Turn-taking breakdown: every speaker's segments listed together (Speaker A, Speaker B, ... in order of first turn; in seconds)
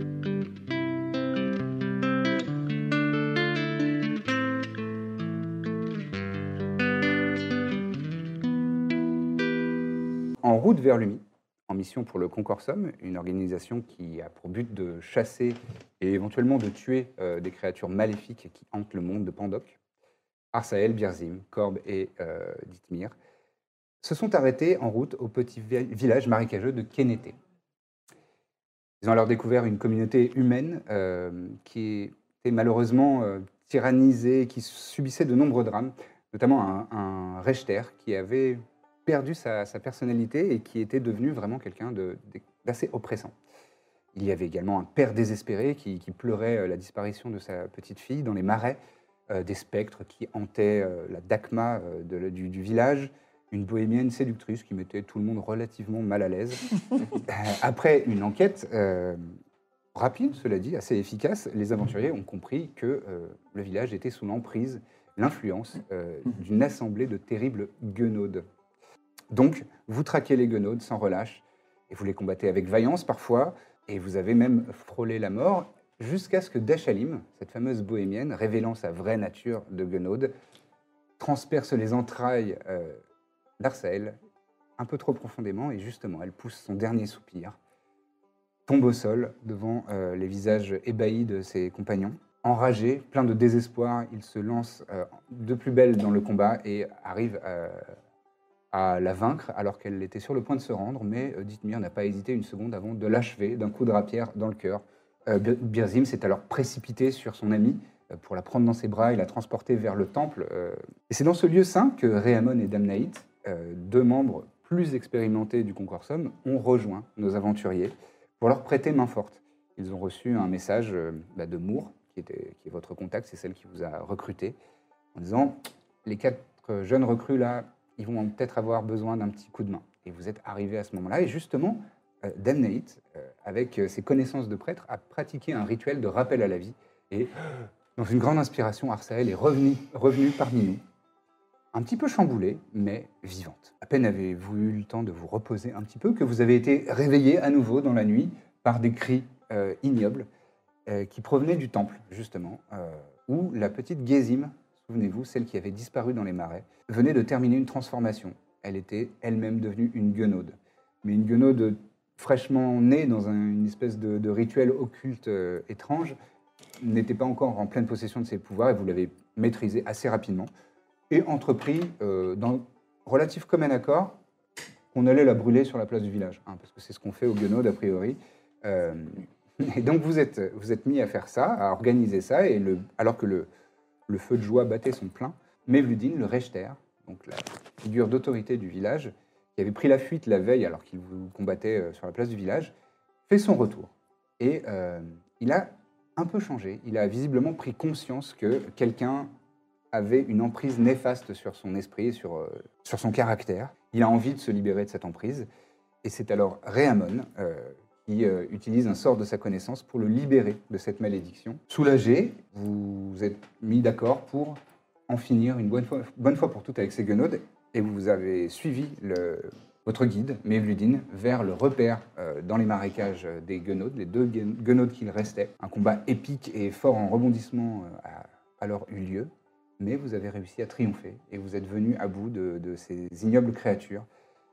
Speaker A: 10.4-19.8, 20.5-23.1, 24.0-27.4, 29.0-43.3, 44.1-59.3, 59.9-68.4, 69.3-80.3, 81.2-83.0, 83.6-84.2, 84.8-87.6, 88.7-97.9, 98.7-124.6, 125.1-140.8, 141.7-150.3, 150.9-166.2, 166.8-170.5, 171.1-174.1, 174.9-183.5, 184.1-192.7, 193.3-199.3, 199.9-205.5, 206.0-234.1